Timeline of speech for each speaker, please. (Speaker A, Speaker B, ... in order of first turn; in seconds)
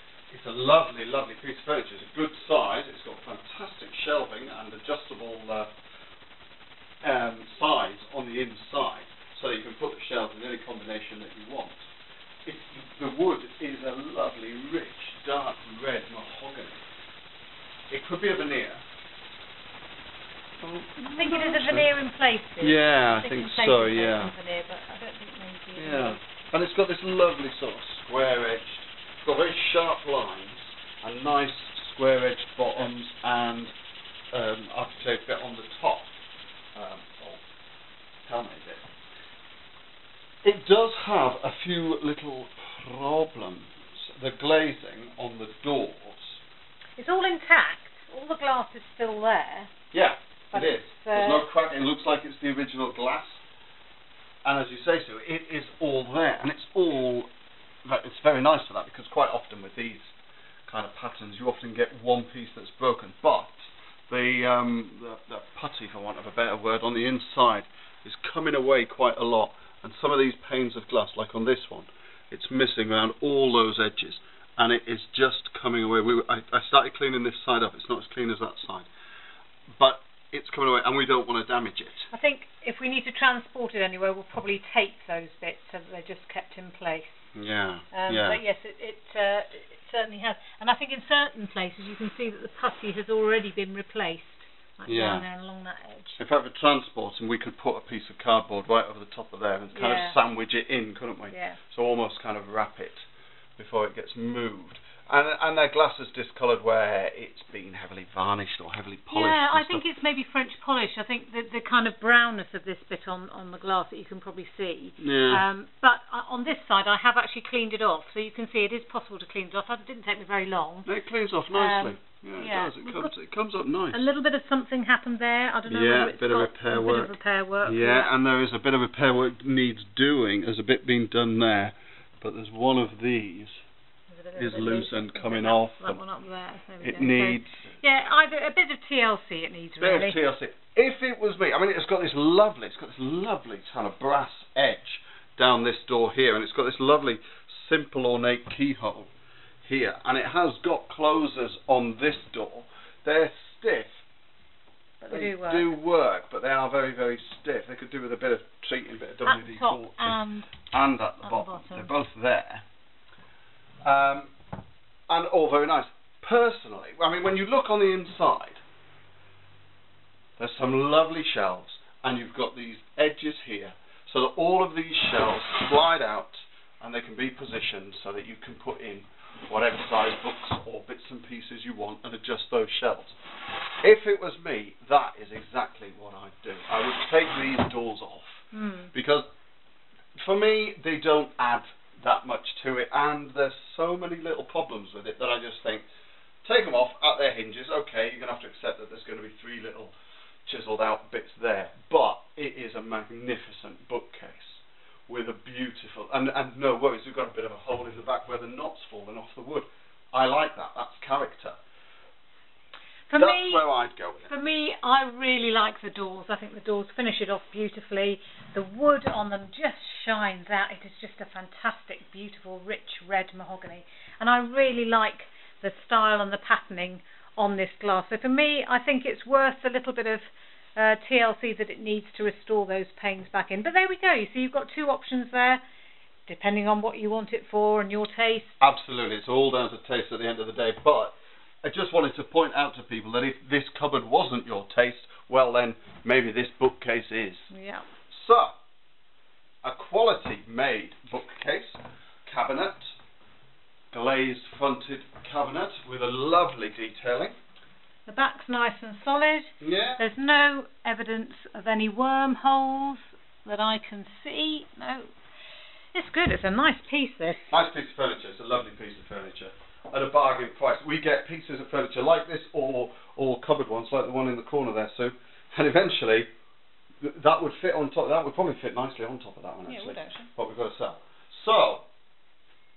Speaker A: 0.3-5.7, 7.0-11.9, 12.5-16.8, 17.9-18.8, 20.6-21.9, 22.6-24.3, 25.8-33.7, 34.3-36.1, 36.8-37.4, 38.3-38.8, 40.4-46.4, 49.9-53.4, 54.4-57.3, 57.9-60.1, 60.7-78.9, 79.8-82.1, 87.3-88.4, 94.9-95.2, 96.2-109.8, 115.0-115.5, 120.9-124.1, 125.7-133.6, 134.4-136.0, 136.8-137.8, 139.8-149.1, 149.6-154.0, 155.1-162.7, 163.8-164.3, 165.1-168.6, 170.4-183.2, 183.8-189.3, 190.2-195.8, 196.4-199.9, 200.5-211.6, 213.1-214.3, 238.6-247.5, 248.1-248.5, 249.6-252.9, 253.9-257.4, 259.6-260.0, 267.5-276.3, 277.0-281.9
Speaker B: 21.0-26.2, 47.0-49.7, 50.5-51.5, 82.1-87.2, 87.9-96.2, 99.7-100.2, 101.3-101.6, 109.1-120.9, 121.5-123.1, 123.9-128.1, 134.1-140.2, 155.0-155.7, 159.2-160.5, 161.2-161.9, 188.5-188.9, 213.1-213.7, 214.3-235.6, 236.3-238.6, 247.5-247.9, 258.1-265.1, 265.9-267.5, 279.7-280.3